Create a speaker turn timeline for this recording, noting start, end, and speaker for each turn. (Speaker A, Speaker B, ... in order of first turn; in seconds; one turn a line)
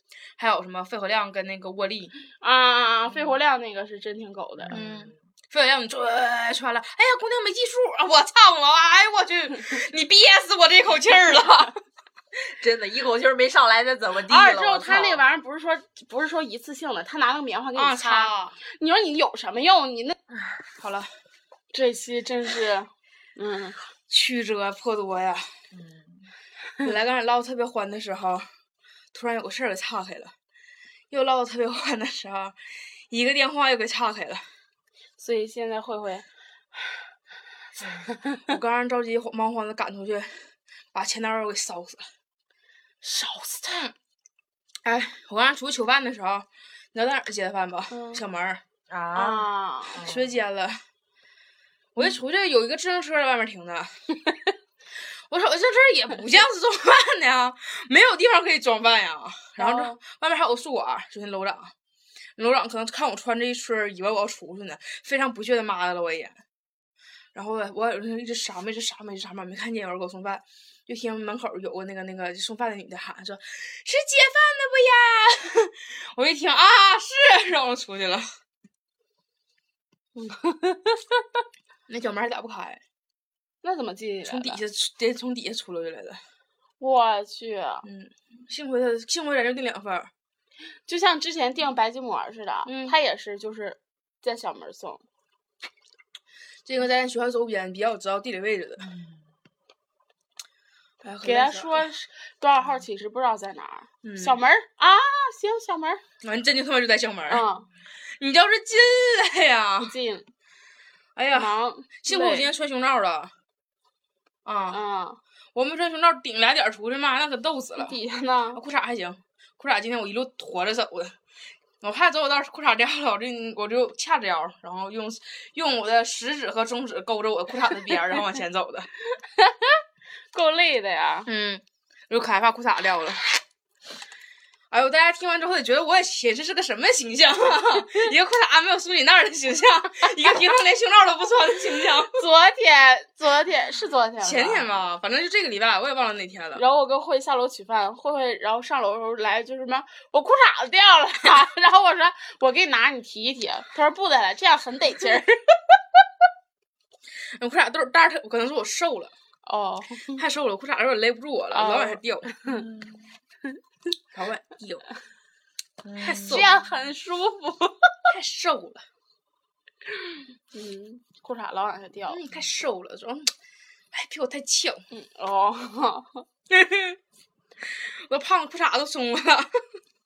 Speaker A: 0.4-2.1
Speaker B: 2.4-4.8
Speaker C: 4.6-5.2
Speaker A: 4.7-11.8
Speaker C: 12.3-15.2
Speaker B: 14.2-20.1
Speaker A: 17.8-18.6
Speaker A: 20.8-21.1
Speaker B: 21.7-23.9
Speaker A: 24.1-25.5
Speaker C: 25.7-26.3
Speaker A: 26.8-28.5
Speaker A: 29.1-30.3
Speaker A: 31.1-34.5
Speaker B: 35.2-36.2
Speaker C: 37.8-38.1
Speaker A: 38.4-42.1
Speaker B: 43.0-43.9
Speaker A: 44.8-48.6
Speaker B: 47.9-48.2
Speaker C: 48.9-50.4
Speaker B: 49.1-50.0
Speaker A: 50.0-50.8
Speaker A: 52.0-54.1
Speaker A: 55.3-61.7
Speaker B: 59.6-60.0
Speaker A: 62.4-66.4
Speaker A: 67.3-78.3
Speaker B: 80.1-81.2
Speaker A: 81.9-82.8
Speaker B: 83.6-84.6
Speaker A: 84.2-86.2
Speaker B: 86.8-87.9
Speaker A: 87.8-90.1
Speaker B: 90.8-95.0
Speaker A: 92.7-93.0
Speaker A: 96.6-98.9
Speaker C: 98.9-99.2
Speaker A: 101.0-101.8
Speaker B: 101.2-106.0
Speaker A: 104.0-104.4
Speaker A: 106.2-107.5
Speaker B: 107.3-107.7
Speaker A: 108.0-109.9
Speaker B: 109.8-110.3
Speaker A: 111.2-113.3
Speaker B: 111.3-112.5
Speaker A: 114.5-114.8
Speaker B: 114.7-115.2
Speaker A: 115.5-118.0
Speaker B: 117.8-118.6
Speaker A: 118.5-121.2
Speaker A: 121.8-128.9
Speaker B: 129.4-131.3
Speaker A: 131.2-133.4
Speaker A: 134.7-142.2
Speaker B: 142.1-144.8
Speaker A: 144.2-146.6
Speaker B: 146.6-155.4
Speaker A: 157.3-159.1
Speaker B: 159.4-160.2
Speaker A: 160.2-162.3
Speaker B: 161.5-162.6
Speaker C: 162.5-163.1
Speaker A: 164.1-164.9
Speaker C: 165.8-166.5
Speaker A: 166.0-166.5
Speaker B: 166.2-168.0
Speaker A: 168.1-168.9
Speaker B: 170.5-172.2
Speaker A: 172.1-173.3
Speaker A: 173.9-174.8
Speaker B: 174.9-176.2
Speaker A: 176.5-177.0
Speaker A: 177.8-179.6